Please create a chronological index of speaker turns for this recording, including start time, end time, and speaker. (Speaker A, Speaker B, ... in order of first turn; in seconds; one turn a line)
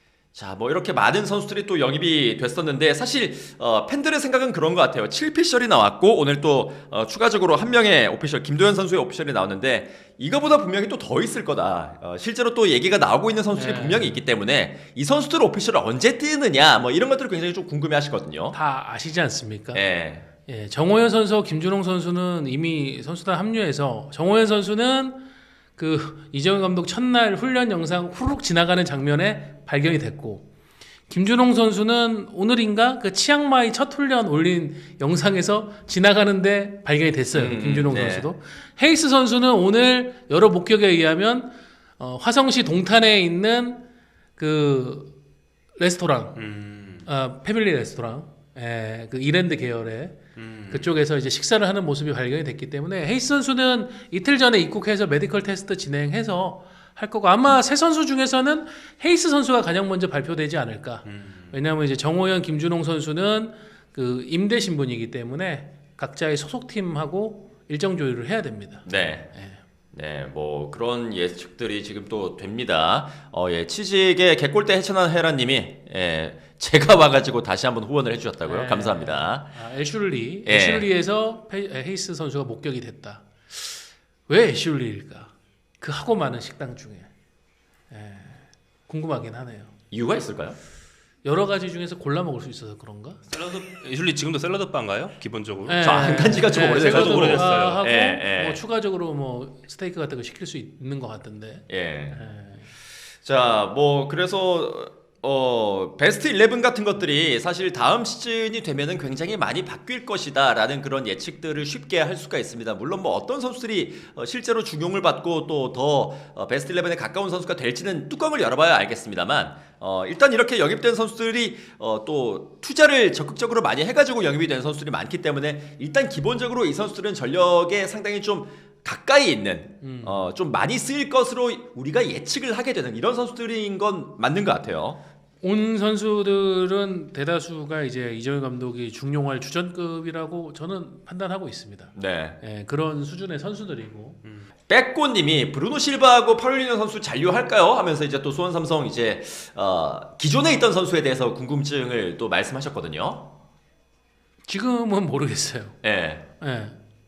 Speaker A: 0.3-18.6
Speaker B: 13.5-14.2
Speaker B: 18.5-19.8
Speaker A: 19.7-20.2
Speaker B: 20.4-30.5
Speaker B: 31.1-43.8
Speaker A: 37.3-38.3
Speaker B: 44.4-45.1
Speaker B: 45.8-46.4
Speaker C: 46.4-47.1
Speaker B: 47.0-50.2
Speaker C: 50.4-51.0
Speaker B: 50.7-69.6
Speaker C: 61.0-61.5
Speaker A: 68.8-69.3
Speaker A: 69.9-79.5
Speaker B: 78.4-87.1
Speaker A: 80.5-80.9
Speaker B: 87.9-89.7
Speaker A: 89.9-90.6
Speaker B: 91.2-93.2
Speaker C: 93.3-97.8
Speaker B: 95.7-102.7
Speaker A: 95.8-98.6
Speaker A: 101.7-102.2
Speaker A: 103.2-135.0
Speaker B: 129.8-130.2
Speaker B: 135.4-144.2
Speaker A: 141.9-142.4
Speaker A: 144.7-153.3
Speaker B: 154.5-155.8
Speaker A: 155.8-156.2
Speaker B: 156.4-156.8